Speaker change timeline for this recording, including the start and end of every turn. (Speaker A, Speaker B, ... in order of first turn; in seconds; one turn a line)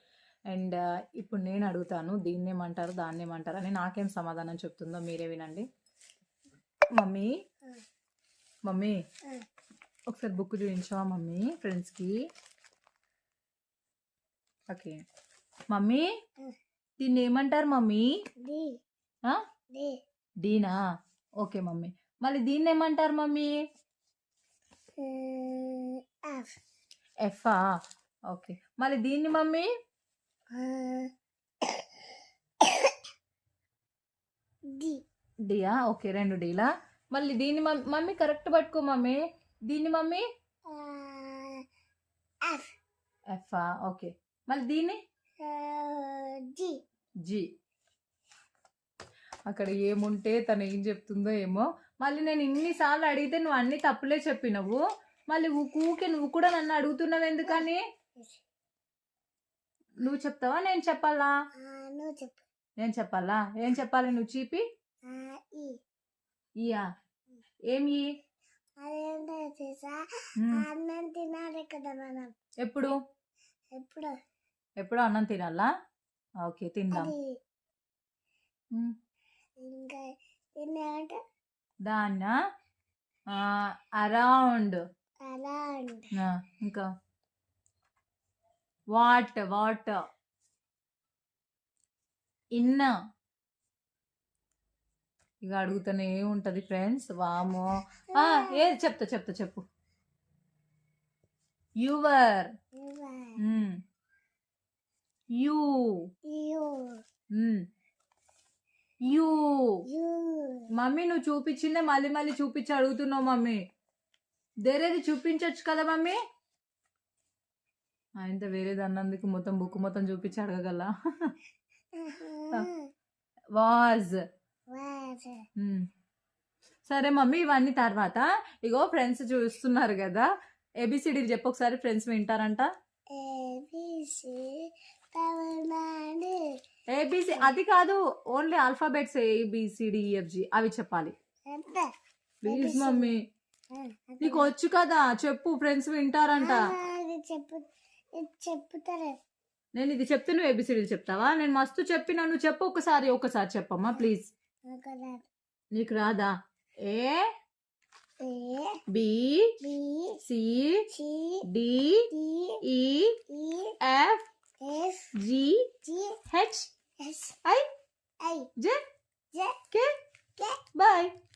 Speaker A: 0.5-5.7
Speaker A: 7.0-7.3
Speaker A: 8.7-9.0
Speaker A: 10.1-12.2
Speaker A: 14.7-15.0
Speaker A: 15.7-16.1
Speaker A: 17.0-18.1
Speaker B: 18.4-18.7
Speaker A: 20.4-20.8
Speaker A: 21.4-23.5
Speaker B: 25.0-26.5
Speaker A: 27.2-27.6
Speaker A: 28.3-29.7
Speaker B: 30.5-31.1
Speaker B: 31.6-31.9
Speaker B: 32.6-32.9
Speaker B: 34.7-35.0
Speaker A: 35.5-40.2
Speaker B: 40.7-41.6
Speaker A: 43.3-45.0
Speaker B: 45.4-46.7
Speaker A: 49.5-57.8
Speaker A: 60.0-61.3
Speaker B: 61.6-62.4
Speaker A: 62.8-64.6
Speaker B: 65.1-65.7
Speaker A: 67.7-68.0
Speaker B: 68.8-72.3
Speaker A: 70.4-70.7
Speaker A: 72.6-72.9
Speaker B: 73.8-74.1
Speaker A: 74.8-75.7
Speaker A: 76.4-77.1
Speaker B: 76.9-77.3
Speaker B: 79.6-80.0
Speaker B: 80.6-81.2
Speaker A: 81.8-82.3
Speaker A: 83.3-84.8
Speaker B: 85.2-86.1
Speaker A: 86.2-86.8
Speaker A: 88.9-90.0
Speaker A: 92.5-92.9
Speaker A: 95.4-99.6
Speaker B: 98.1-98.6
Speaker A: 101.8-102.5
Speaker B: 102.8-103.4
Speaker A: 103.4-103.8
Speaker A: 105.4-106.0
Speaker B: 106.3-107.0
Speaker A: 107.3-107.6
Speaker A: 109.1-109.8
Speaker B: 109.9-110.7
Speaker A: 110.8-113.6
Speaker A: 114.7-116.2
Speaker A: 118.2-121.3
Speaker B: 121.9-122.9
Speaker A: 123.5-124.2
Speaker B: 124.7-125.4
Speaker A: 125.6-125.8
Speaker A: 126.9-130.2
Speaker A: 130.8-132.7
Speaker B: 133.1-134.6
Speaker B: 135.1-136.4
Speaker A: 136.9-141.1
Speaker B: 141.5-141.9
Speaker A: 142.4-143.2
Speaker B: 142.4-143.1
Speaker B: 143.7-144.5
Speaker A: 144.2-146.7
Speaker B: 146.4-147.7
Speaker B: 148.2-149.1
Speaker A: 149.8-154.3
Speaker B: 154.7-155.2
Speaker A: 155.7-156.3
Speaker A: 156.8-157.2
Speaker B: 158.2-158.8
Speaker A: 158.9-159.6
Speaker B: 159.6-160.2
Speaker A: 160.2-160.9
Speaker B: 160.9-161.4
Speaker A: 161.5-162.1
Speaker B: 162.1-162.6
Speaker A: 162.6-163.2
Speaker B: 163.3-163.8
Speaker A: 163.8-164.2
Speaker B: 164.6-165.1
Speaker A: 165.2-165.7
Speaker B: 165.8-166.2
Speaker A: 166.3-166.7
Speaker B: 167.0-167.4
Speaker B: 168.2-168.5
Speaker B: 169.3-169.6
Speaker B: 170.4-170.6
Speaker A: 170.7-171.1